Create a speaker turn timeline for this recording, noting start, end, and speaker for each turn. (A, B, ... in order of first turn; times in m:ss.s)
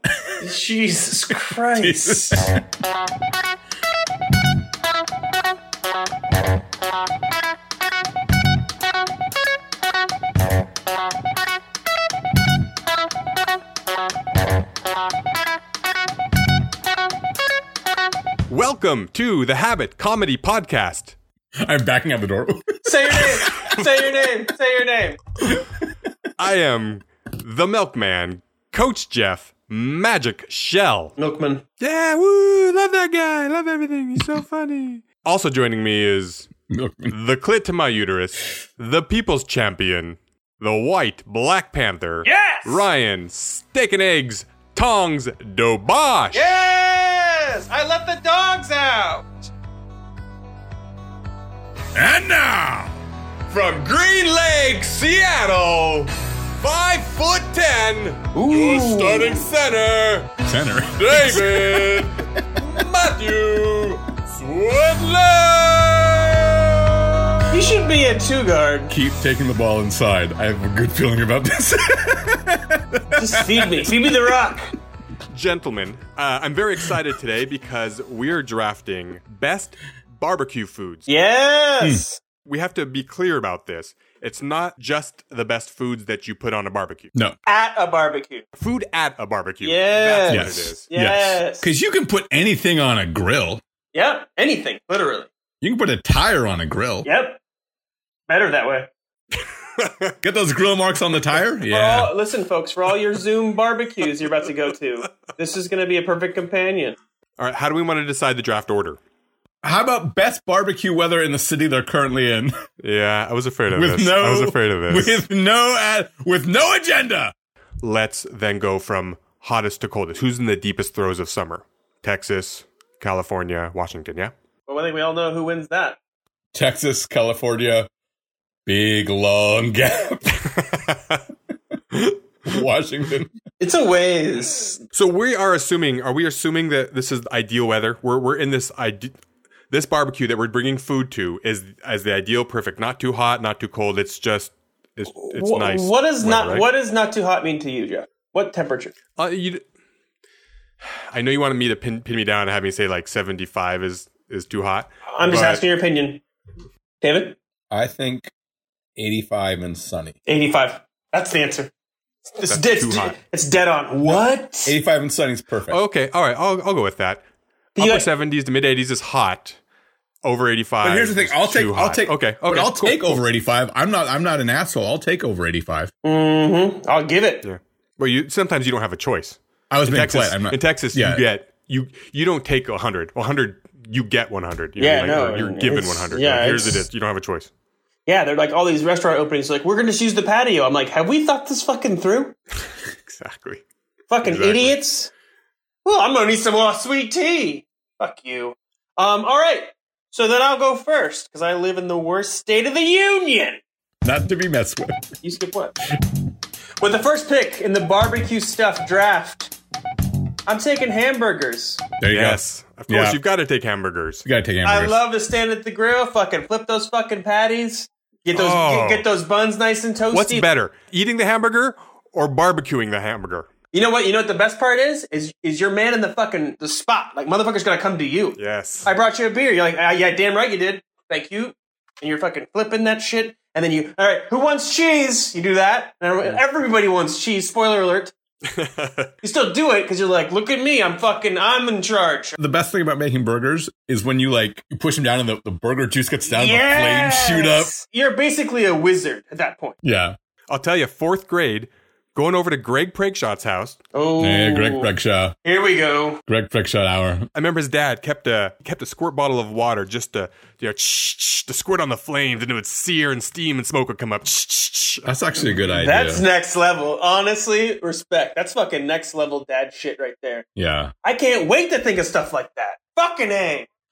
0:00.1-0:00.4 A
0:00.4-0:02.5 B
0:01.7-0:02.6 A
0:18.5-0:21.1 C
0:21.6-0:23.9 A
0:22.8-0:25.2 B
0:25.5-0:25.8 A
0:26.4-0:31.1 C
0:31.2-0:31.6 B
0:31.8-0:36.5 C
0:36.7-0:37.2 A
0:37.1-0:46.5 C
0:42.2-0:42.8 B
0:46.3-0:49.5 B
0:51.9-0:52.9 A
0:53.5-1:00.4 C
0:58.3-0:59.4 B
1:00.4-1:02.4 A
1:01.0-1:07.5 C
1:07.5-1:08.9 B
1:08.9-1:14.3 A
1:13.1-1:14.6 B
1:15.3-1:21.1 C
1:21.1-1:22.2 B
1:22.4-1:27.1 C
1:27.5-1:28.4 B
1:28.6-1:30.8 C
1:29.6-1:31.7 B
1:30.3-1:33.6 A
1:33.9-1:35.3 B
1:35.6-1:37.1 A
1:37.0-1:37.4 B
1:38.3-1:38.9 B
1:39.8-1:40.1 C
1:40.2-1:42.1 A
1:41.7-1:47.0 B
1:47.4-1:49.0 C
1:49.6-1:52.6 A
1:52.8-1:55.2 C
1:53.7-1:57.3 A
1:57.8-2:04.3 C
2:04.7-2:06.0 B
2:06.5-2:07.9 A
2:08.6-2:10.3 A
2:10.4-2:11.2 C
2:12.4-2:13.3 A
2:13.6-2:14.8 B
2:14.9-2:19.2 C
2:19.7-2:26.6 C
2:25.2-2:28.9 B
2:29.2-2:29.6 C
2:31.1-2:35.6 C
2:35.1-2:36.2 B
2:37.0-2:37.4 B
2:37.7-2:38.3 A
2:39.0-2:40.2 A
2:40.3-2:41.7 B
2:42.3-2:44.8 B
2:42.4-2:43.2 C
2:44.0-2:45.8 A
2:45.7-2:47.2 C
2:47.8-2:48.1 B
2:47.8-2:49.6 C
2:50.2-2:53.2 C
2:50.8-2:55.9 A
2:56.0-2:57.4 B
2:57.4-3:07.5 C
2:59.7-3:01.2 A
3:04.8-3:06.9 B
3:08.0-3:12.3 B
3:13.0-3:13.6 C
3:14.1-3:15.1 B
3:14.2-3:14.8 C
3:15.8-3:23.6 B
3:24.0-3:25.0 A
3:25.2-3:25.8 B
3:26.8-3:29.5 B
3:30.5-3:31.8 B
3:32.0-3:33.2 A
3:32.1-3:34.2 C
3:34.2-3:35.0 A
3:34.6-3:40.4 B
3:38.3-3:39.0 C
3:40.1-3:43.5 C
3:43.7-3:58.1 B
3:48.4-3:48.9 C
3:58.4-3:59.1 C
3:59.2-4:02.3 B
4:02.4-4:07.7 A
4:06.3-4:09.8 B
4:09.8-4:10.2 A
4:10.5-4:13.8 C
4:13.9-4:14.9 B
4:14.2-4:15.4 A
4:15.4-4:16.2 B
4:16.3-4:17.3 A
4:17.3-4:25.1 C
4:25.0-4:26.3 A
4:25.7-4:30.5 B
4:30.6-4:30.9 A
4:31.0-4:33.7 B